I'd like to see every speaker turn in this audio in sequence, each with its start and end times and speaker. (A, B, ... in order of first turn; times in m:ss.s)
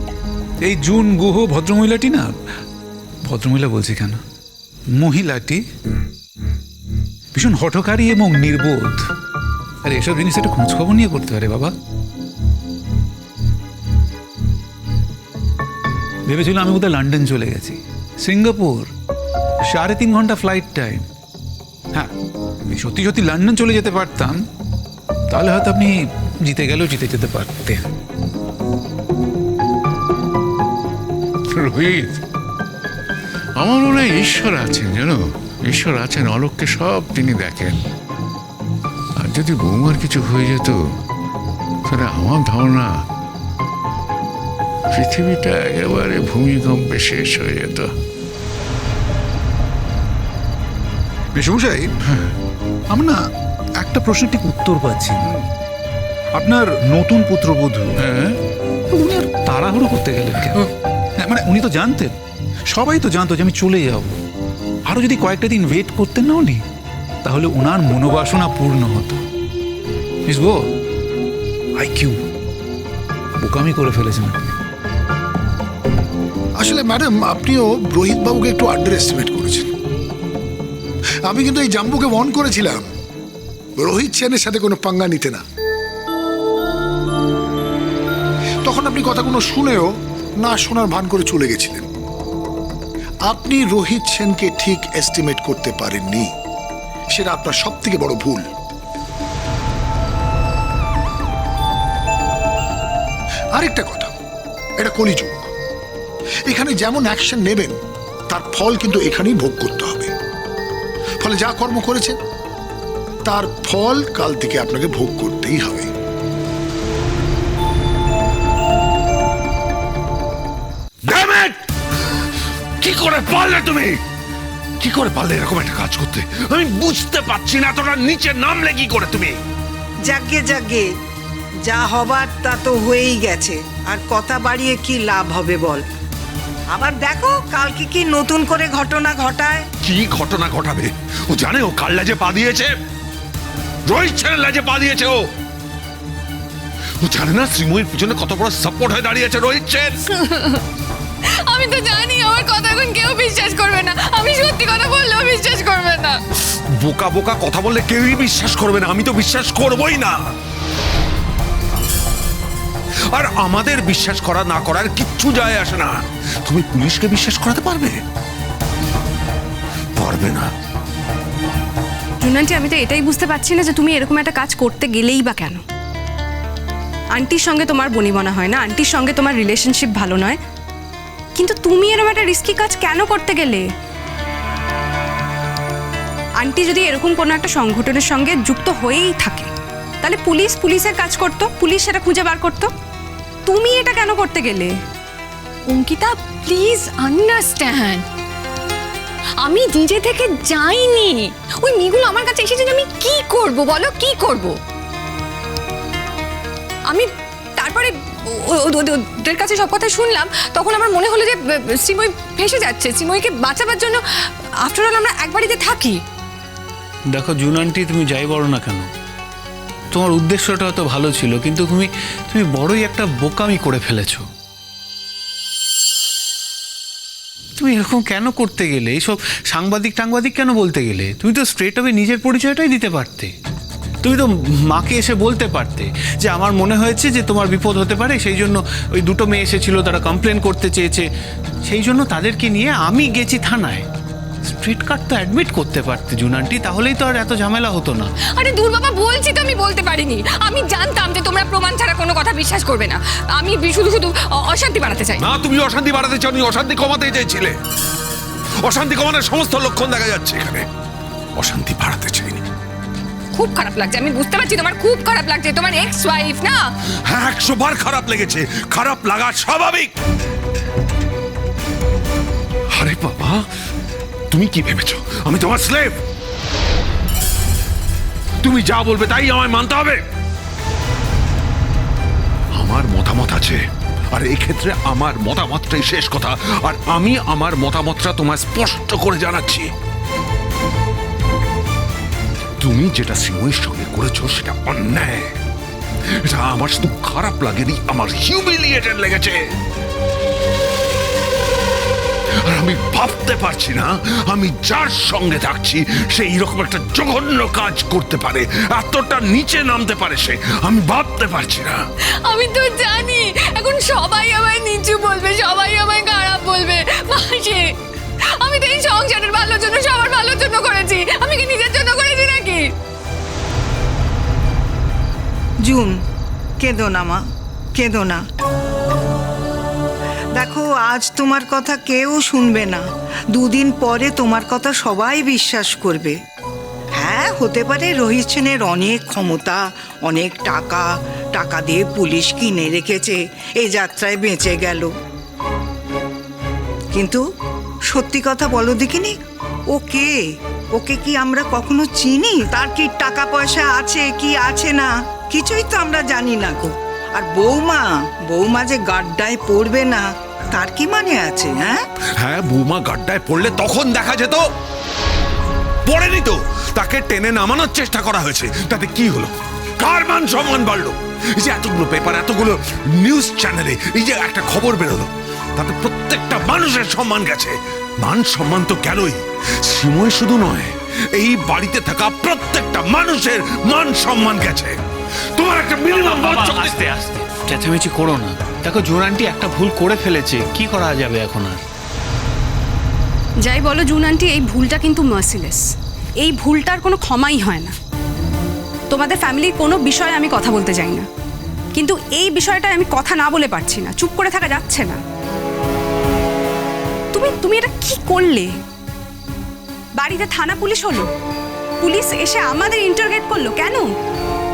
0:00.6-0:02.3 A
0:03.2-0:04.2 A
0:04.9-0:05.6 A
0:07.3-0:09.0 A
0:09.8-0:11.7 A
0:16.2-0:18.9 A
0:19.7-0:21.0 A
0:22.7-0:24.4 A
0:25.3-0:27.8 A
0:31.5-0:32.2 B
0:33.6-0:37.8 B
0:39.2-0:40.8 B
0:41.8-0:43.0 B
0:44.9-0:47.9 B
0:51.3-0:51.9 A
0:52.9-0:53.2 A
0:53.8-0:55.4 A
0:56.4-0:58.0 A
0:58.0-0:58.3 B
0:58.9-1:00.6 A
1:01.2-1:02.1 A
1:02.7-1:04.1 A
1:04.9-1:06.6 A
1:07.2-1:09.2 A
1:10.2-1:10.6 A
1:11.8-1:12.2 A
1:13.4-1:14.5 A
1:16.6-1:19.7 C
1:21.2-1:22.8 C
1:23.8-1:25.4 C
1:28.6-1:29.9 C
1:30.4-1:31.8 C
1:33.3-1:36.3 C
1:37.1-1:38.4 C
1:43.6-1:44.1 C
1:44.8-1:45.5 C
1:46.5-1:47.8 C
1:48.3-1:50.1 C
1:51.2-1:52.2 C
1:53.2-1:55.9 C
2:01.1-2:01.6 D
2:02.8-2:04.0 D
2:04.8-2:09.4 D
2:10.1-2:10.9 E
2:11.7-2:15.8 E
2:16.7-2:19.6 E
2:19.8-2:22.7 D
2:23.9-2:25.2 D
2:27.0-2:30.0 D
2:30.3-2:30.6 F
2:31.4-2:36.2 F
2:36.8-2:40.2 D
2:43.1-2:45.9 D
2:46.4-2:48.0 D
2:50.0-2:50.5 D
2:52.2-2:55.6 G
2:57.1-3:00.4 G
3:01.4-3:03.6 G
3:06.4-3:09.5 G
3:10.0-3:12.7 G
3:13.4-3:14.7 G
3:15.7-3:18.0 F
3:19.4-3:24.5 F
3:26.9-3:34.0 F
3:34.6-3:36.0 F
3:37.1-3:38.9 H
3:39.9-3:44.2 H
3:47.6-3:53.3 H
3:54.0-4:01.1 H
4:01.6-4:03.9 H
4:04.4-4:08.1 H
4:08.3-4:15.2 F
4:15.2-4:17.6 D
4:18.6-4:20.6 D
4:21.4-4:22.4 D
4:23.3-4:26.7 F
4:27.0-4:29.9 D
4:32.7-4:33.4 D
4:34.3-4:36.0 D
4:38.4-4:40.0 D
4:42.5-4:43.6 D
4:44.1-4:49.7 D
4:52.6-4:55.3 D
4:56.2-4:59.4 D
5:02.5-5:11.8 D
5:12.2-5:17.7 F
5:18.4-5:22.7 F
5:25.6-5:26.0 E
5:26.6-5:27.2 E
5:27.7-5:28.2 E
5:30.4-5:36.2 E
5:37.0-5:44.9 E
5:46.9-5:47.2 E
5:47.9-5:49.1 E
5:49.7-5:50.2 E
5:50.7-6:01.8 E
6:02.2-6:04.4 D
6:05.8-6:24.8 D
6:25.4-6:26.9 D
6:25.8-6:31.6 H
6:33.4-6:35.6 G
6:36.2-6:37.7 G
6:38.9-6:41.0 G
6:41.7-6:45.0 G
6:47.1-6:48.5 G
6:50.0-6:51.1 G
6:51.8-6:53.9 G